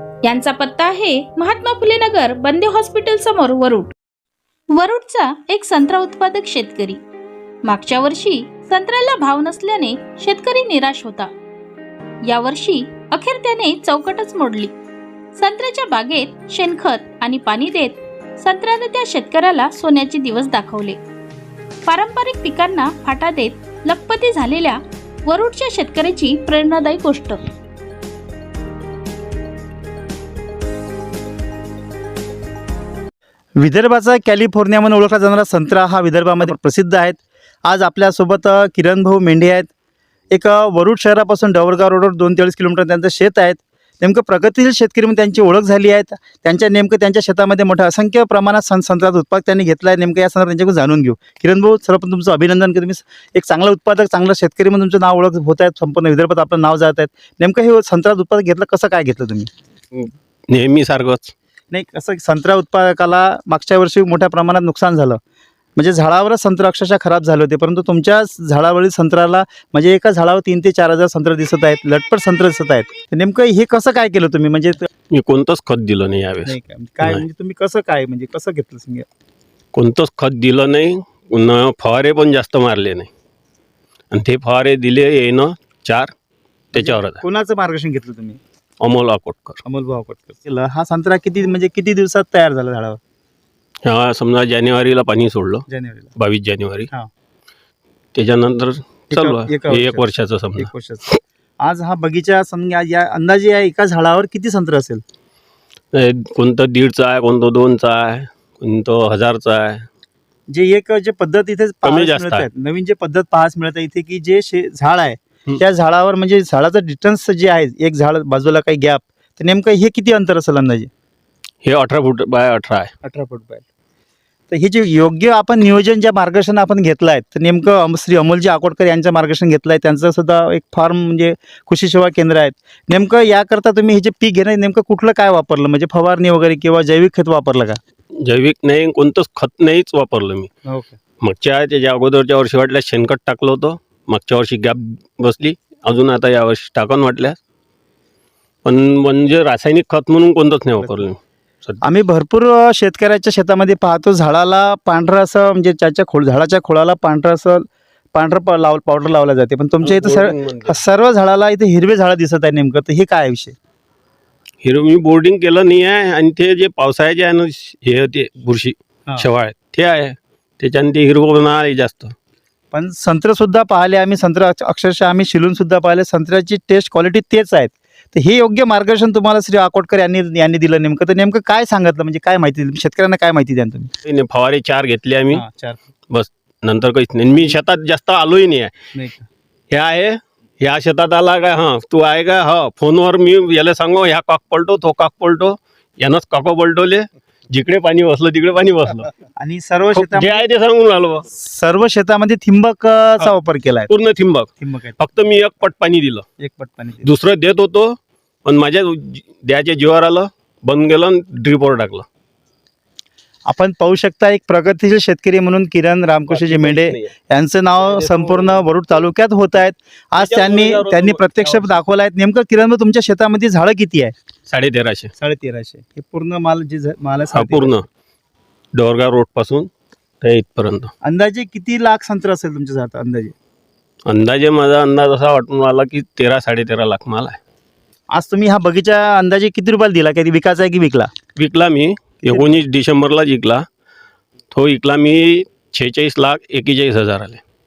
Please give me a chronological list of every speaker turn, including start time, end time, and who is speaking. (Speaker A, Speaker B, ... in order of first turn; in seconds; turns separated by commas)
Speaker A: 0.2-3.9, Speaker A: 4.7-7.0, Speaker A: 7.6-11.3, Speaker A: 12.2-14.7, Speaker A: 15.3-21.0, Speaker A: 21.9-27.4, Speaker B: 33.6-39.7, Speaker B: 40.3-59.5, Speaker C: 60.0-61.3, Speaker B: 61.7-65.2, Speaker B: 65.8-74.8, Speaker C: 75.1-77.2, Speaker B: 76.4-79.0, Speaker C: 79.7-83.1, Speaker C: 84.1-86.1, Speaker C: 86.7-87.2, Speaker B: 86.7-88.4, Speaker C: 88.8-89.6, Speaker B: 89.7-93.0, Speaker C: 93.8-95.6, Speaker B: 95.7-96.1, Speaker C: 96.2-96.9, Speaker C: 98.1-100.7, Speaker B: 99.1-101.1, Speaker B: 101.6-105.0, Speaker C: 105.9-109.8, Speaker B: 110.5-120.9, Speaker C: 111.8-112.5, Speaker C: 121.6-122.9, Speaker B: 123.0-123.6, Speaker B: 124.5-137.8, Speaker C: 138.2-140.5, Speaker B: 140.7-141.0, Speaker C: 141.2-147.4, Speaker C: 148.6-151.9, Speaker B: 150.8-151.0, Speaker B: 151.8-163.5, Speaker C: 159.8-160.8, Speaker C: 164.6-172.1, Speaker B: 172.7-183.9, Speaker C: 184.0-185.4, Speaker B: 185.3-185.8, Speaker C: 186.1-188.7, Speaker B: 188.9-189.3, Speaker C: 189.7-199.1, Speaker B: 199.4-200.4, Speaker C: 199.9-201.3, Speaker B: 201.4-203.9, Speaker C: 203.9-204.5, Speaker B: 204.6-205.0, Speaker C: 205.0-206.2, Speaker B: 206.4-207.1, Speaker C: 207.0-212.0, Speaker B: 213.4-224.1, Speaker C: 216.3-217.1, Speaker C: 217.8-218.7, Speaker C: 220.1-221.8, Speaker C: 224.5-225.1, Speaker B: 225.2-227.8, Speaker C: 227.3-227.8, Speaker C: 228.7-229.7, Speaker C: 230.2-230.9, Speaker B: 231.0-233.3, Speaker C: 234.1-237.4, Speaker B: 238.1-241.1, Speaker C: 241.4-243.6, Speaker B: 242.3-242.6, Speaker C: 244.5-247.4